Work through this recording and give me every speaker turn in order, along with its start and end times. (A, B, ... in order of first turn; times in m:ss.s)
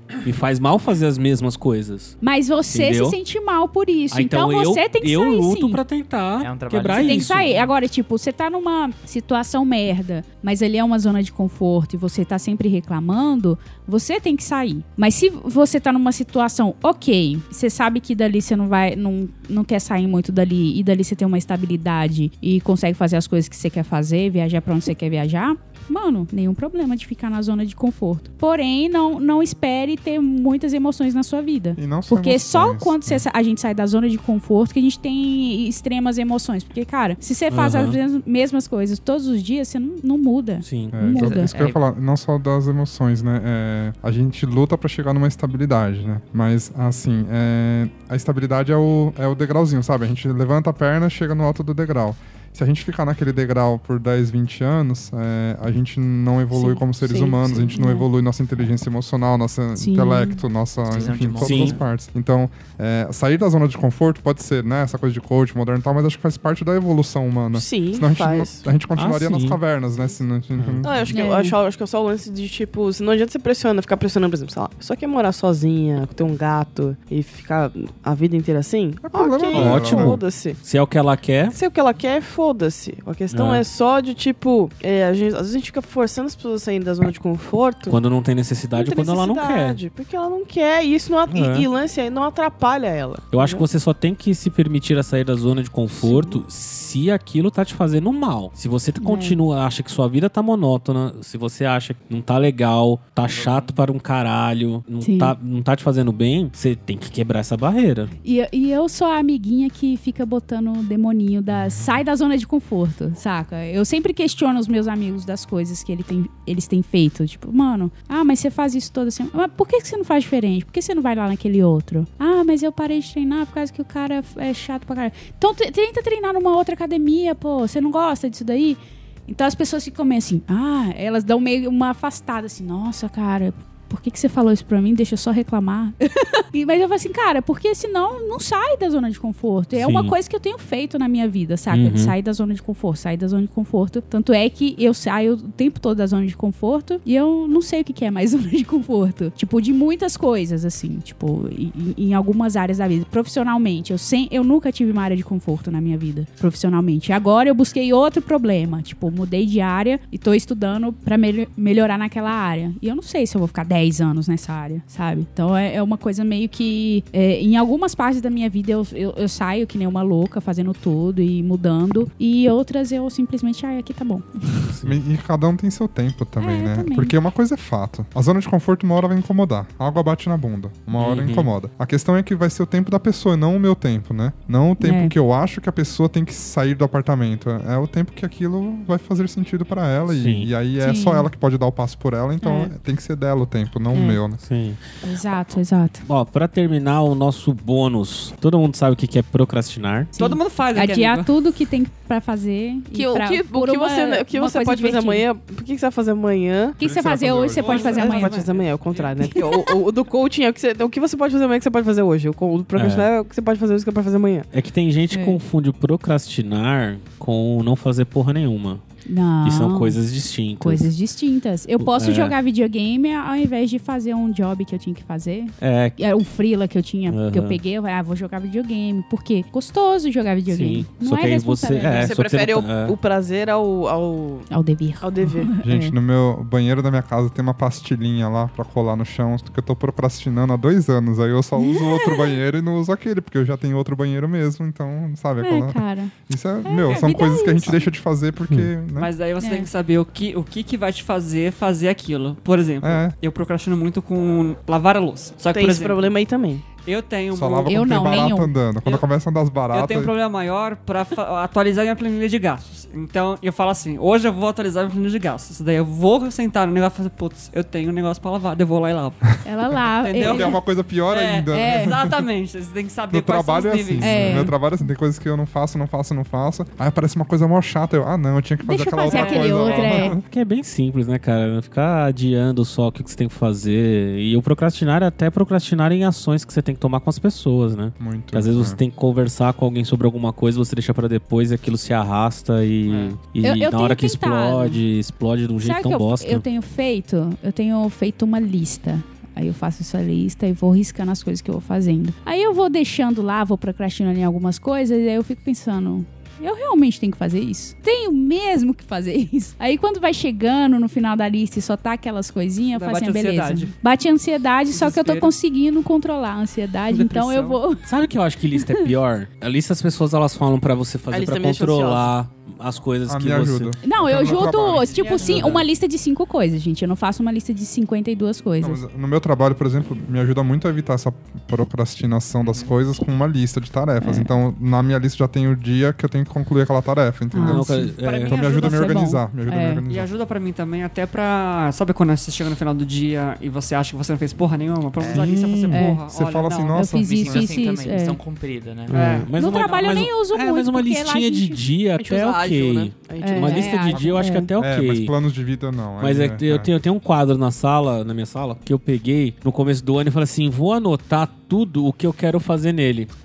0:00.2-0:02.2 A
0:02.2-0:05.8 B
0:02.7-0:03.2 A
0:04.1-0:07.5 A
0:06.4-0:07.6 C
0:07.0-0:41.5 B
0:31.8-0:33.2 D
0:37.5-0:38.0 A
0:40.6-0:41.1 A
0:40.9-1:11.0 D
0:41.2-0:41.8 C
0:56.5-0:58.1 B
0:59.8-1:00.4 B
1:00.9-1:01.8 C
1:01.4-1:01.8 A
1:07.5-1:08.7 E
1:09.0-1:09.6 A
1:10.6-1:10.9 A
1:10.8-1:20.6 E
1:11.1-1:11.6 B
1:19.0-1:20.2 D
1:19.5-1:21.6 A
1:21.5-1:28.0 E
1:23.3-1:23.6 A
1:27.9-1:29.8 A
1:28.7-1:33.7 E
1:31.3-1:31.7 A
1:33.3-1:48.1 A
1:36.0-1:36.4 E
1:39.0-1:39.4 B
1:43.3-1:43.7 C
1:45.0-1:45.4 B
1:48.2-2:54.7 B
1:51.6-1:51.9 D
2:19.7-2:20.2 A
2:21.7-2:22.1 A
2:54.7-2:55.0 A
2:54.8-3:14.4 D
2:56.4-2:57.1 B
3:01.0-3:01.5 A
3:04.8-3:05.1 B
3:10.1-3:10.5 A
3:10.8-3:11.3 B
3:12.4-3:12.7 B
3:13.9-3:14.2 B
3:14.4-3:14.8 A
3:15.0-3:16.0 B
3:16.1-3:20.1 A
3:20.2-3:25.2 B
3:20.2-3:21.3 F
3:22.9-3:26.8 E
3:26.8-3:28.4 B
3:26.8-3:28.0 D
3:27.6-3:29.2 F
3:27.6-3:34.5 E
3:29.3-3:29.8 B
3:32.8-3:33.1 A
3:34.5-3:38.8 A
3:35.1-3:35.4 B
3:39.1-3:40.0 B
3:39.4-3:40.9 A
3:40.6-3:52.2 B
3:41.8-3:42.4 A
3:45.6-3:46.0 A
3:47.1-3:47.6 A
3:50.5-3:53.0 A
3:51.9-3:54.5 E
3:54.5-3:56.0 B
3:55.0-3:55.5 E
3:55.6-4:09.1 D
4:01.6-4:02.3 B
4:05.4-4:06.1 B
4:06.6-4:07.8 B
4:09.0-4:16.0 F
4:09.4-4:09.7 B
4:12.8-4:13.2 D
4:15.5-4:16.6 E
4:16.8-4:18.3 F
4:17.3-4:20.1 D
4:17.7-4:18.5 B
4:19.7-4:29.4 F
4:29.4-4:30.6 B
4:30.0-4:30.6 F
4:30.2-4:32.2 D
4:31.1-4:34.5 F
4:31.5-4:31.9 B
4:33.1-4:40.2 D
4:34.0-4:34.5 B
4:38.6-4:40.2 B
4:39.1-4:40.1 F
4:40.3-4:56.4 A
4:48.0-4:48.8 D
4:52.9-4:53.2 F
4:53.4-4:54.8 B
4:55.6-5:17.8 B
5:12.8-5:13.7 F
5:14.7-5:15.3 F
5:16.9-5:17.6 F
5:17.8-5:23.8 A
5:18.6-5:18.9 B
5:21.1-5:22.1 E
5:23.1-5:25.6 D
5:23.8-5:28.8 B
5:24.1-5:25.6 F
5:28.6-5:40.1 D
5:34.0-5:34.3 B
5:37.3-5:38.0 B
5:37.4-5:38.4 A
5:38.0-5:39.1 F
5:38.5-5:39.8 B
5:39.9-5:46.9 F
5:45.0-5:47.5 D
5:45.7-5:46.0 B
5:46.8-5:48.2 B
5:47.0-5:49.1 C
5:48.9-5:55.1 A
5:48.9-5:50.0 F
5:49.3-5:51.7 B
5:52.0-5:54.1 E
5:53.2-5:54.5 B
5:54.6-5:56.7 D
5:56.0-6:03.1 A